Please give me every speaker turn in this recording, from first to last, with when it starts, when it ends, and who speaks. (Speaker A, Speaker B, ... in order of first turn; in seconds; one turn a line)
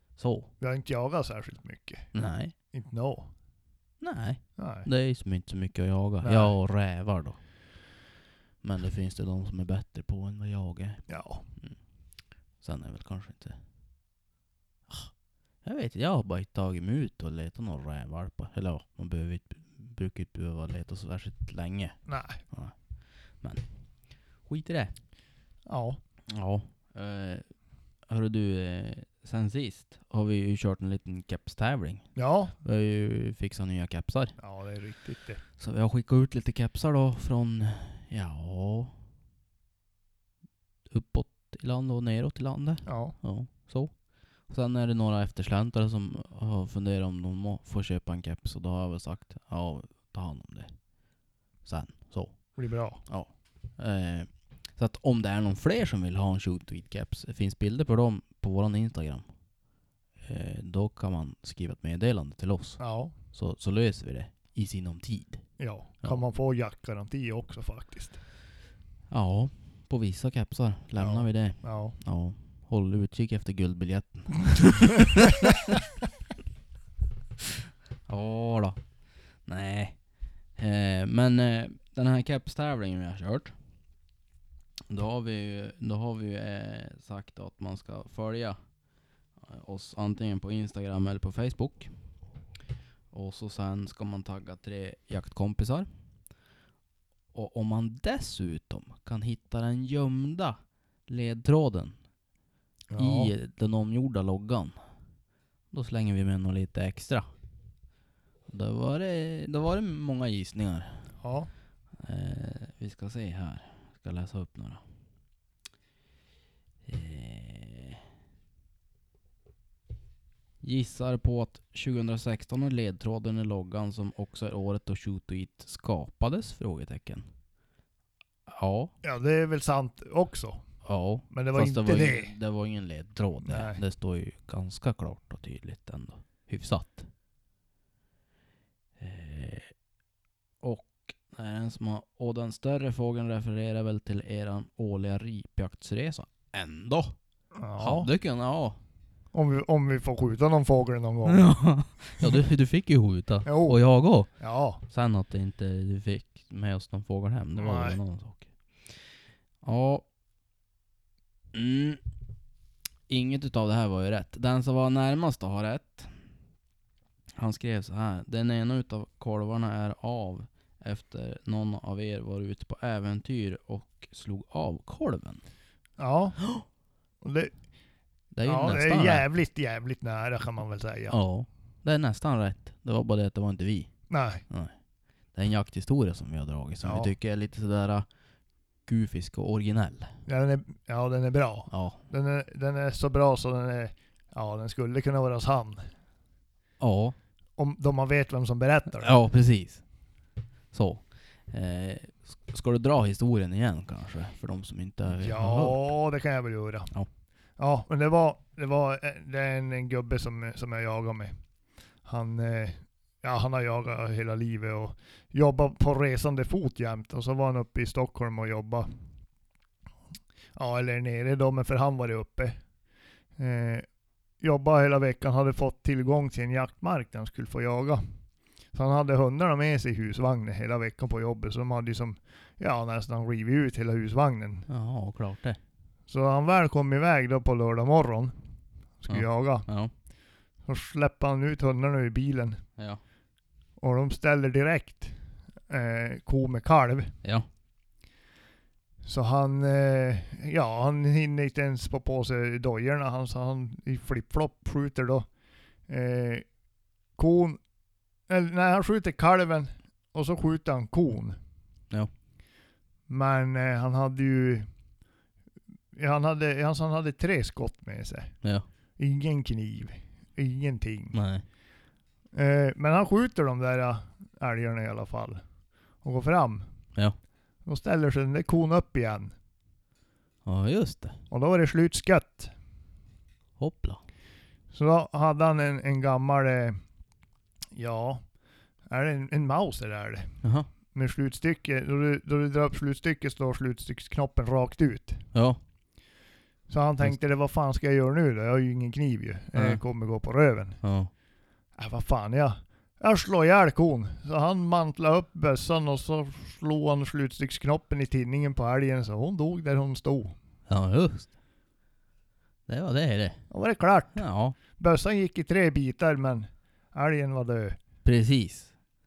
Speaker A: 0.2-0.5
Speaker B: 0.6-2.1
Speaker A: 2.1-2.5
Speaker B: 2.7-3.3
Speaker A: 4.0-7.4
Speaker B: 4.6-4.9
Speaker B: 6.2-6.6
Speaker A: 8.6-11.1
Speaker B: 11.1-11.5
Speaker A: 12.6-13.6
Speaker A: 14.9-22.8
Speaker B: 22.1-22.4
Speaker A: 23.4-23.7
Speaker A: 24.4-24.9
Speaker B: 25.7-26.0
Speaker A: 26.3-27.5
Speaker A: 28.1-32.1
Speaker B: 32.1-32.6
Speaker A: 32.6-34.4
Speaker B: 34.4-35.4
Speaker A: 35.6-38.9
Speaker A: 40.9-44.0
Speaker B: 42.9-43.2
Speaker A: 44.5-50.7
Speaker A: 51.6-59.3
Speaker B: 52.5-53.0
Speaker A: 60.2-62.8
Speaker B: 62.8-63.1
Speaker A: 63.3-65.4
Speaker B: 65.6-68.2
Speaker A: 69.1-75.8
Speaker B: 71.0-72.0
Speaker A: 78.1-78.8
Speaker A: 79.4-80.0
Speaker A: 80.6-83.5
Speaker A: 84.9-88.6
Speaker A: 89.4-91.9
Speaker A: 93.1-95.9
Speaker A: 97.3-102.0
Speaker B: 102.9-103.3
Speaker A: 103.0-104.8
Speaker A: 105.7-107.3
Speaker A: 108.5-111.0
Speaker B: 111.2-111.5
Speaker A: 112.0-114.8
Speaker A: 116.9-118.0
Speaker A: 120.6-127.3
Speaker A: 128.5-128.9
Speaker B: 129.0-130.6
Speaker A: 130.8-137.1
Speaker B: 131.3-132.3
Speaker B: 133.5-133.8
Speaker A: 139.0-139.7
Speaker A: 140.6-147.2
Speaker B: 147.6-148.1
Speaker A: 147.8-148.8
Speaker B: 149.3-151.5
Speaker A: 151.3-158.9
Speaker B: 153.5-153.8
Speaker B: 154.3-154.8
Speaker B: 157.6-158.0
Speaker A: 159.6-160.1
Speaker A: 161.5-162.0
Speaker A: 163.1-166.1
Speaker A: 167.4-175.4
Speaker B: 176.0-176.4
Speaker B: 177.2-177.6
Speaker A: 178.3-179.3
Speaker B: 178.4-181.2
Speaker A: 181.1-183.9
Speaker B: 184.1-184.4
Speaker A: 184.5-184.8
Speaker A: 185.3-188.1
Speaker B: 186.8-187.1
Speaker A: 188.9-190.2
Speaker B: 190.3-195.9
Speaker A: 191.7-192.0
Speaker A: 196.8-197.2
Speaker B: 197.6-199.2
Speaker A: 199.0-199.8
Speaker A: 200.7-205.9
Speaker B: 205.2-206.9
Speaker B: 207.6-211.4
Speaker B: 212.1-218.9
Speaker B: 220.5-222.6
Speaker B: 223.4-223.9
Speaker B: 224.4-228.0
Speaker B: 228.7-234.7
Speaker A: 234.7-235.6
Speaker B: 236.1-238.4
Speaker B: 239.0-239.7
Speaker A: 239.1-239.9
Speaker B: 240.7-242.6
Speaker B: 243.8-247.2
Speaker B: 249.0-255.3
Speaker B: 255.9-256.5
Speaker B: 257.2-257.6
Speaker B: 258.3-261.4
Speaker B: 263.1-264.7
Speaker B: 265.9-268.4
Speaker B: 269.0-271.2
Speaker A: 271.1-271.4
Speaker B: 272.3-275.4
Speaker B: 276.0-276.7
Speaker B: 277.6-279.3
Speaker A: 280.4-281.2
Speaker B: 281.3-282.5
Speaker A: 283.6-284.0
Speaker B: 284.7-286.8
Speaker B: 287.8-288.3
Speaker B: 288.9-290.4
Speaker A: 290.4-290.7
Speaker B: 290.9-295.3
Speaker A: 295.3-295.6
Speaker B: 296.7-300.8
Speaker A: 299.6-299.8
Speaker A: 300.8-301.1
Speaker B: 301.8-310.4
Speaker A: 310.7-311.3
Speaker A: 312.7-313.4
Speaker B: 313.5-317.8
Speaker A: 314.1-314.6
Speaker A: 318.1-318.7